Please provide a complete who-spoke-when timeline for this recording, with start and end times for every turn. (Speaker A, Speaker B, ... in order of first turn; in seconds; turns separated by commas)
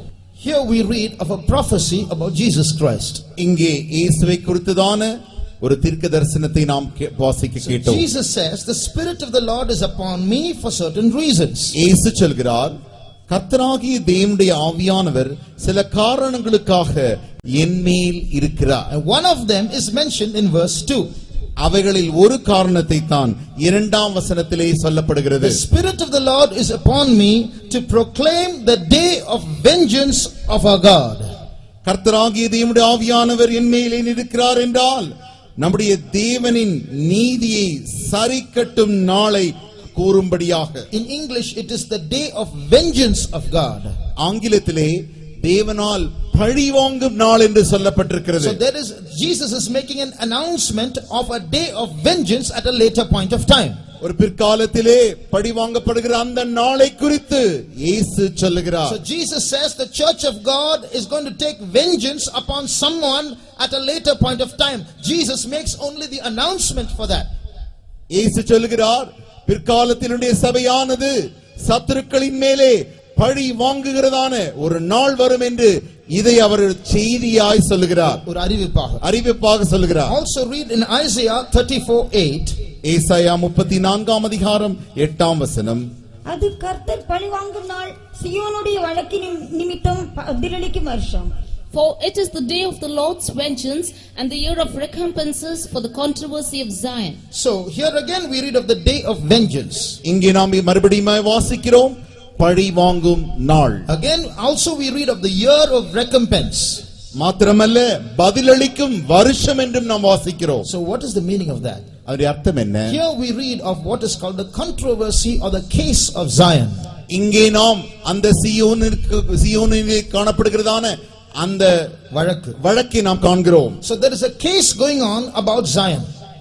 Speaker A: 0.4-3.2, Speaker B: 3.4-8.0, Speaker A: 7.6-11.7, Speaker B: 11.7-12.7, Speaker B: 13.3-18.9, Speaker A: 18.9-21.1, Speaker B: 21.6-25.6, Speaker A: 25.4-31.3, Speaker B: 31.8-40.9, Speaker A: 40.9-43.9, Speaker B: 44.2-48.6, Speaker A: 48.4-53.8, Speaker B: 54.0-59.0, Speaker A: 58.9-67.3, Speaker B: 68.1-78.2, Speaker A: 78.2-79.0, Speaker B: 79.0-80.1, Speaker A: 80.0-82.5, Speaker B: 82.8-85.9, Speaker C: 86.2-91.3, Speaker D: 91.7-97.2, Speaker A: 97.3-100.0, Speaker B: 100.0-103.8, Speaker A: 103.9-106.8, Speaker B: 107.1-110.7, Speaker A: 110.6-111.8, Speaker B: 112.0-113.0, Speaker A: 112.9-116.9, Speaker B: 117.1-122.0, Speaker A: 122.1-122.6, Speaker B: 122.5-123.8, Speaker A: 123.8-126.1